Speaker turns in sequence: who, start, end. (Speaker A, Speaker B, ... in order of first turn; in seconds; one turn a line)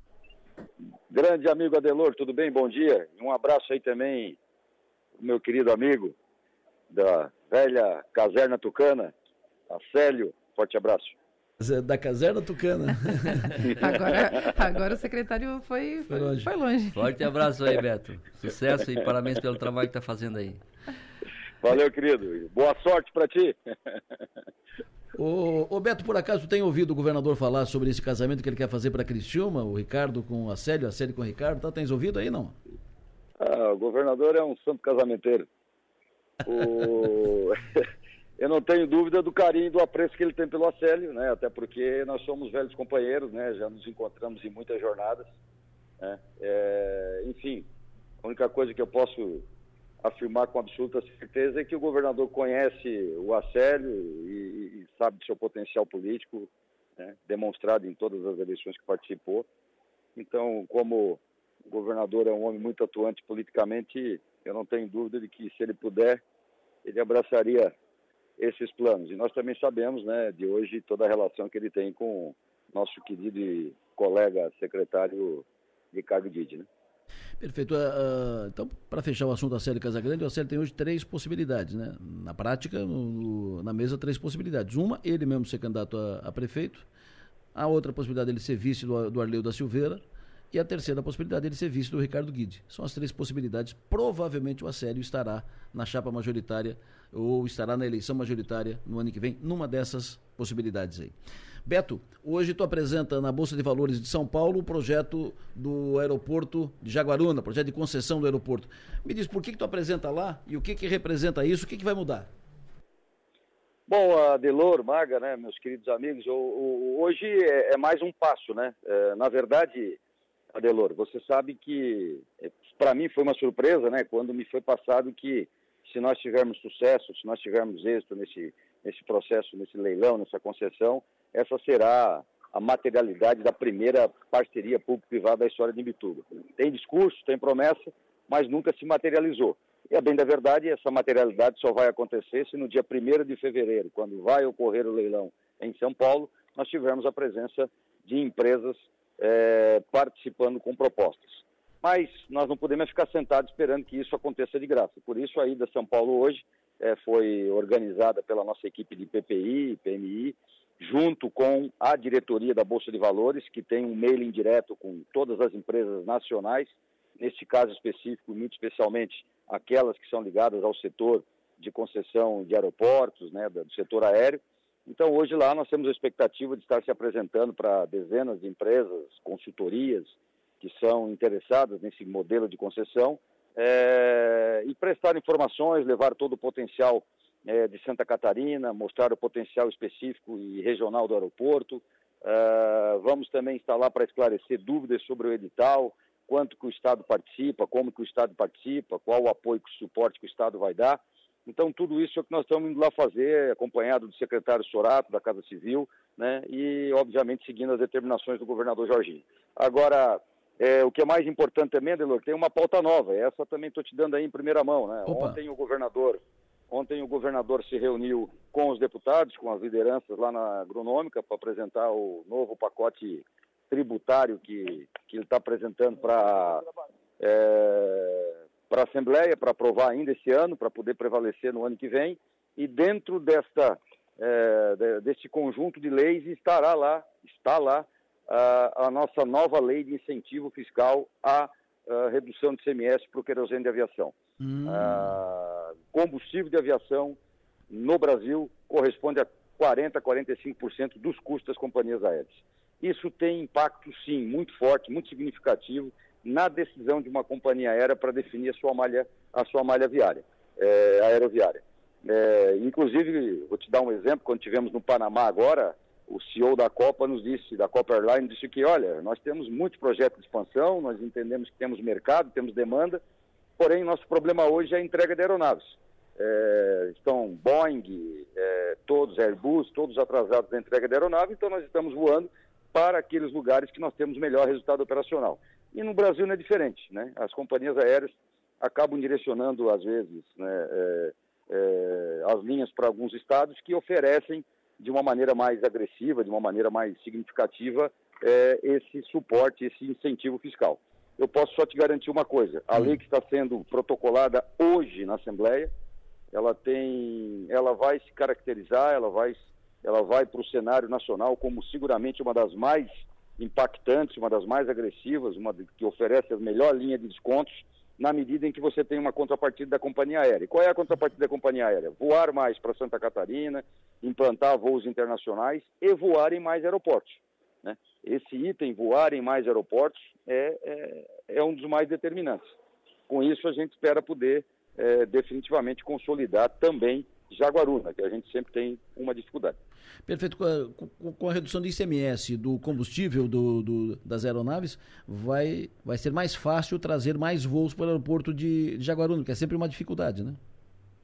Speaker A: 1.1-4.4
Speaker A: 5.2-6.1
Speaker A: 6.9-9.1
Speaker A: 9.7-11.1
Speaker B: 11.6-13.6
Speaker C: 13.7-17.0
Speaker B: 16.1-16.5
Speaker D: 17.4-20.5
Speaker A: 18.5-19.1
Speaker A: 21.6-24.0
Speaker B: 25.1-32.6
Speaker A: 33.4-35.5
Speaker A: 36.4-37.8
Speaker A: 38.4-45.2
Speaker A: 46.0-47.6
Speaker A: 48.2-49.4
Speaker A: 50.0-59.5
Speaker A: 60.1-66.2
Speaker A: 66.8-67.7
Speaker A: 68.4-76.7
Speaker B: 77.4-86.8
Speaker B: 87.5-101.1
Speaker B: 101.7-112.3
Speaker A: 113.9-120.0
Speaker A: 120.5-216.2
Speaker B: 215.1-215.4
Speaker A: 216.7-226.6
Speaker A: 227.2-244.1
Speaker B: 244.4-245.1
Speaker A: 244.7-247.2
Speaker A: 247.7-273.0
Speaker A: 273.6-305.7
Speaker A: 306.3-332.4
Speaker A: 333.1-339.6
Speaker B: 340.1-350.4